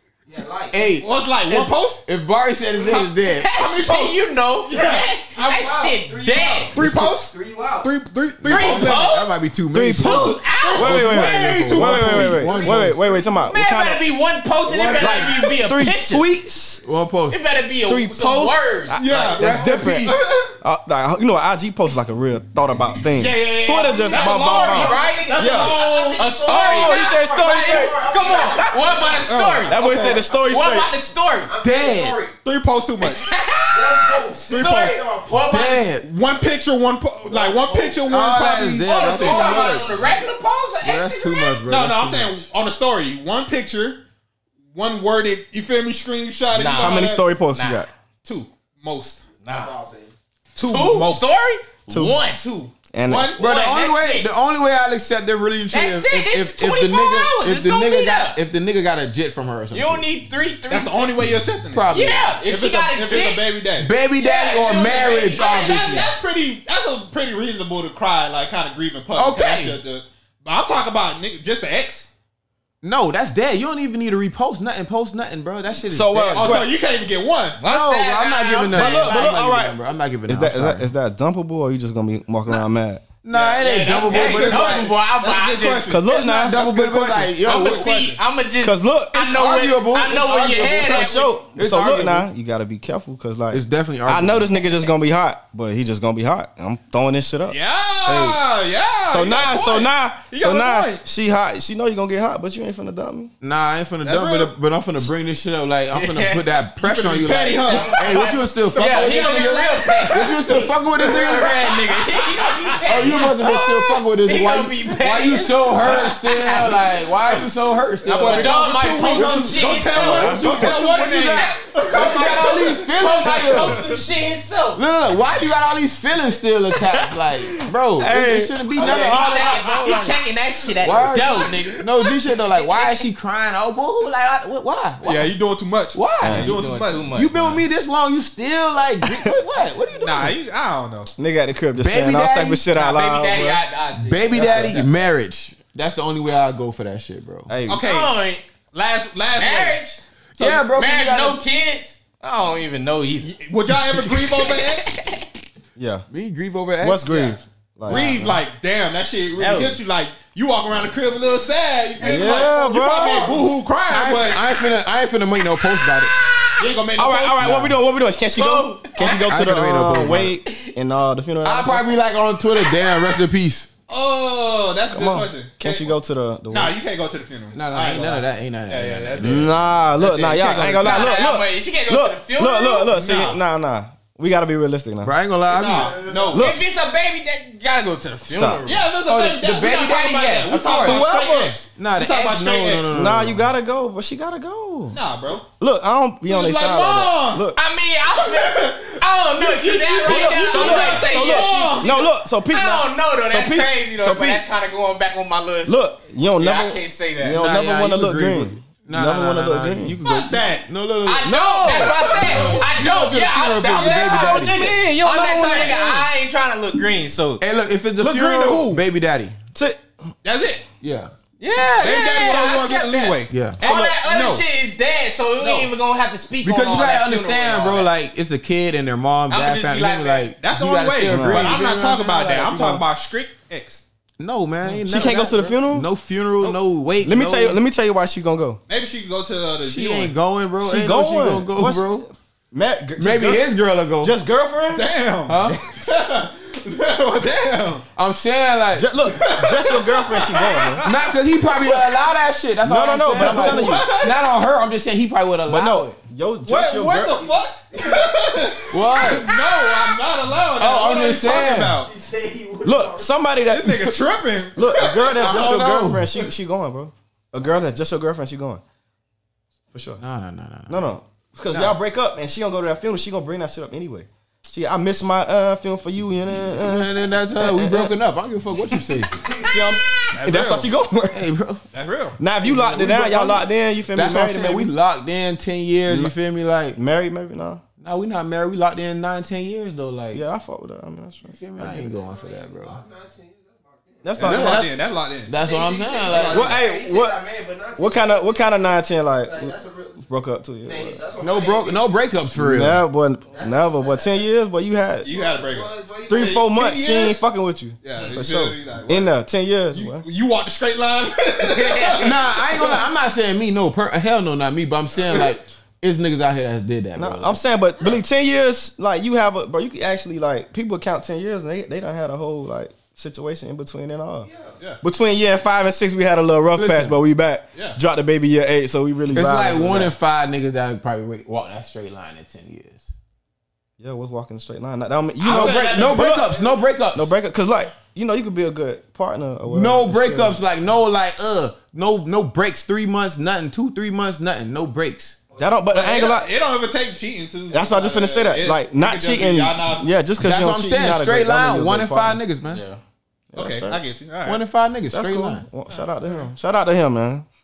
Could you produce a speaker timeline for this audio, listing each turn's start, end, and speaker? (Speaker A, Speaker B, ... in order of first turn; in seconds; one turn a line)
Speaker A: 0.3-1.0
Speaker B: 0.7-3.5
Speaker C: 1.0-2.0
Speaker C: 2.8-6.0
Speaker D: 2.9-6.8
Speaker A: 5.4-7.9
Speaker C: 6.8-9.2
Speaker B: 8.4-13.0
Speaker D: 8.4-9.4
Speaker E: 9.7-14.1
Speaker D: 10.0-11.0
Speaker C: 10.6-12.9
Speaker D: 13.3-16.3
Speaker B: 14.7-15.3
Speaker E: 14.9-16.8
Speaker B: 16.8-17.4
Speaker D: 17.3-19.0
Speaker E: 17.9-25.8
Speaker C: 19.0-20.5
Speaker B: 19.3-20.2
Speaker C: 23.1-26.5
Speaker D: 23.8-31.5
Speaker A: 24.0-30.2
Speaker E: 26.5-28.9
Speaker C: 29.3-30.2
Speaker E: 29.6-30.9
Speaker A: 31.5-32.4
Speaker B: 31.6-32.2
Speaker C: 32.4-33.3
Speaker D: 33.0-35.9
Speaker A: 33.7-35.7
Speaker C: 34.5-35.0
Speaker B: 35.5-36.1
Speaker C: 36.0-39.9
Speaker A: 37.3-38.0
Speaker B: 38.0-40.0
Speaker D: 38.8-41.6
Speaker B: 40.8-42.4
Speaker C: 41.7-44.0
Speaker C: 44.7-47.2
Speaker D: 46.5-47.9
Speaker E: 46.8-47.9
Speaker C: 48.2-49.2
Speaker D: 49.4-49.7
Speaker A: 49.4-50.1
Speaker C: 50.5-51.3
Speaker D: 50.6-52.4
Speaker E: 51.9-52.2
Speaker C: 52.3-53.5
Speaker E: 52.9-53.3
Speaker D: 53.4-54.3
Speaker B: 53.4-60.1
Speaker D: 55.7-58.4
Speaker D: 59.7-61.1
Speaker C: 60.7-63.9
Speaker B: 61.7-62.4
Speaker D: 61.9-63.5
Speaker B: 63.8-66.1
Speaker D: 64.2-66.2
Speaker C: 65.5-72.1
Speaker B: 69.2-69.8
Speaker B: 72.8-76.7
Speaker E: 75.9-76.7
Speaker C: 76.3-77.6
Speaker D: 77.6-79.4
Speaker B: 77.6-80.9
Speaker E: 78.7-79.8
Speaker E: 80.3-83.0
Speaker B: 83.2-84.9
Speaker D: 83.3-86.0
Speaker C: 83.3-88.2
Speaker E: 85.9-86.7
Speaker B: 86.1-88.1
Speaker D: 87.5-91.3
Speaker E: 88.6-89.3
Speaker B: 89.2-92.3
Speaker E: 90.8-97.6
Speaker B: 93.5-94.5
Speaker C: 97.5-101.0
Speaker B: 98.1-98.4
Speaker E: 99.1-103.3
Speaker B: 103.4-111.7
Speaker C: 104.0-104.5
Speaker D: 105.9-106.5
Speaker C: 106.8-113.3
Speaker D: 107.7-116.9
Speaker B: 112.9-123.8
Speaker C: 115.7-117.5
Speaker C: 118.0-124.0
Speaker D: 118.2-120.8
Speaker D: 121.4-124.8
Speaker B: 124.8-130.2
Speaker E: 128.0-128.6
Speaker D: 128.8-131.9
Speaker C: 128.8-129.9
Speaker B: 130.8-135.3
Speaker D: 132.5-133.0
Speaker C: 135.0-137.6
Speaker B: 135.9-136.5
Speaker E: 136.2-136.6
Speaker D: 136.3-137.6
Speaker B: 137.1-140.3
Speaker C: 140.0-141.1
Speaker E: 141.2-143.6
Speaker B: 141.8-142.7
Speaker D: 142.7-144.9
Speaker B: 144.0-147.5
Speaker E: 144.4-144.8
Speaker E: 147.5-147.8
Speaker C: 147.7-148.2
Speaker D: 147.8-148.4
Speaker C: 148.7-149.8
Speaker D: 149.3-153.3
Speaker B: 150.4-151.4
Speaker C: 153.2-155.0
Speaker D: 154.1-155.2
Speaker E: 155.8-156.1
Speaker B: 156.1-157.2
Speaker E: 156.8-158.4
Speaker C: 157.1-157.4
Speaker C: 157.9-164.4
Speaker D: 159.4-159.8
Speaker E: 162.0-163.4
Speaker B: 163.9-166.1
Speaker C: 166.6-167.8
Speaker E: 167.0-171.9
Speaker D: 168.3-169.3
Speaker B: 169.0-170.3
Speaker B: 171.4-173.7
Speaker D: 172.6-173.1
Speaker C: 173.9-175.9
Speaker E: 174.9-176.8
Speaker C: 176.5-181.2
Speaker B: 177.5-179.5
Speaker E: 179.2-185.2
Speaker D: 180.8-183.3
Speaker C: 183.0-183.4
Speaker B: 185.0-186.1
Speaker C: 185.5-186.5
Speaker A: 185.6-186.5
Speaker E: 186.3-186.6
Speaker D: 186.3-188.9
Speaker E: 188.3-188.6
Speaker C: 188.7-192.9
Speaker B: 189.0-191.1
Speaker E: 190.8-191.6
Speaker B: 191.8-193.5
Speaker E: 192.9-195.0
Speaker C: 194.9-195.4
Speaker E: 195.6-197.6
Speaker C: 196.3-197.5
Speaker D: 197.6-205.8
Speaker C: 198.2-202.0
Speaker E: 200.0-204.4
Speaker E: 205.7-210.0
Speaker D: 206.4-207.5
Speaker B: 207.3-214.8
Speaker C: 210.0-210.7
Speaker D: 211.1-217.4
Speaker E: 211.3-212.5
Speaker C: 211.7-212.6
Speaker E: 213.8-216.1
Speaker B: 217.4-219.4
Speaker C: 218.0-218.8
Speaker E: 219.5-219.8
Speaker C: 220.2-220.6
Speaker B: 220.8-221.1
Speaker D: 221.4-227.9
Speaker C: 221.8-224.4
Speaker B: 223.3-223.6
Speaker E: 223.6-223.9
Speaker A: 225.4-225.7
Speaker B: 226.4-232.8
Speaker D: 229.3-230.3
Speaker C: 230.4-233.8
Speaker E: 231.0-231.6
Speaker B: 234.2-237.6
Speaker E: 234.6-235.9
Speaker E: 237.0-238.6
Speaker C: 238.7-240.2
Speaker B: 239.6-242.1
Speaker E: 240.6-243.5
Speaker B: 243.0-244.2
Speaker E: 244.0-244.9
Speaker C: 244.7-247.8
Speaker B: 245.3-245.6
Speaker B: 247.9-248.9
Speaker E: 248.8-250.9
Speaker C: 249.1-251.9
Speaker B: 250.8-256.0
Speaker E: 252.6-253.9
Speaker C: 253.2-254.3
Speaker E: 255.5-257.2
Speaker C: 256.5-261.9
Speaker A: 257.8-258.7
Speaker B: 258.7-259.3
Speaker B: 260.6-261.8
Speaker A: 261.1-263.1
Speaker E: 262.6-264.0
Speaker C: 263.5-265.6
Speaker E: 264.6-268.6
Speaker B: 265.2-266.1
Speaker E: 269.7-270.0
Speaker B: 270.0-270.8
Speaker E: 270.7-277.9
Speaker B: 276.6-279.2
Speaker A: 279.2-279.8
Speaker E: 279.3-281.3
Speaker C: 280.1-280.7
Speaker B: 281.1-281.6
Speaker C: 281.7-282.2
Speaker E: 282.2-284.7
Speaker B: 282.4-286.8
Speaker E: 285.9-286.1
Speaker E: 286.8-287.6
Speaker B: 287.8-290.2
Speaker E: 290.1-291.9
Speaker B: 291.3-292.8
Speaker A: 291.7-294.4
Speaker E: 294.0-294.7
Speaker C: 294.2-295.3
Speaker B: 294.2-294.7
Speaker B: 295.3-296.6
Speaker A: 295.3-298.5
Speaker C: 296.1-296.6
Speaker E: 296.3-297.2
Speaker E: 297.8-301.0
Speaker A: 299.2-300.1
Speaker A: 300.6-301.9
Speaker B: 301.2-302.8
Speaker E: 302.4-305.1
Speaker A: 303.3-304.2
Speaker C: 305.0-307.2
Speaker A: 305.1-306.4
Speaker E: 306.1-310.1
Speaker C: 307.8-309.1
Speaker C: 309.7-312.8
Speaker D: 311.4-312.2
Speaker B: 312.0-317.4
Speaker E: 312.6-312.8
Speaker E: 317.0-324.3
Speaker A: 324.2-324.5
Speaker E: 324.8-329.9
Speaker B: 326.6-326.9
Speaker B: 329.1-332.9
Speaker E: 333.8-336.2
Speaker C: 335.2-336.3
Speaker B: 335.2-337.1
Speaker E: 336.9-340.4
Speaker B: 339.5-345.2
Speaker E: 345.4-346.3
Speaker C: 345.7-349.9
Speaker E: 347.5-352.2
Speaker B: 350.2-352.6
Speaker D: 352.5-352.8
Speaker E: 353.3-353.8
Speaker C: 353.4-354.4
Speaker B: 354.2-355.5
Speaker E: 354.9-357.3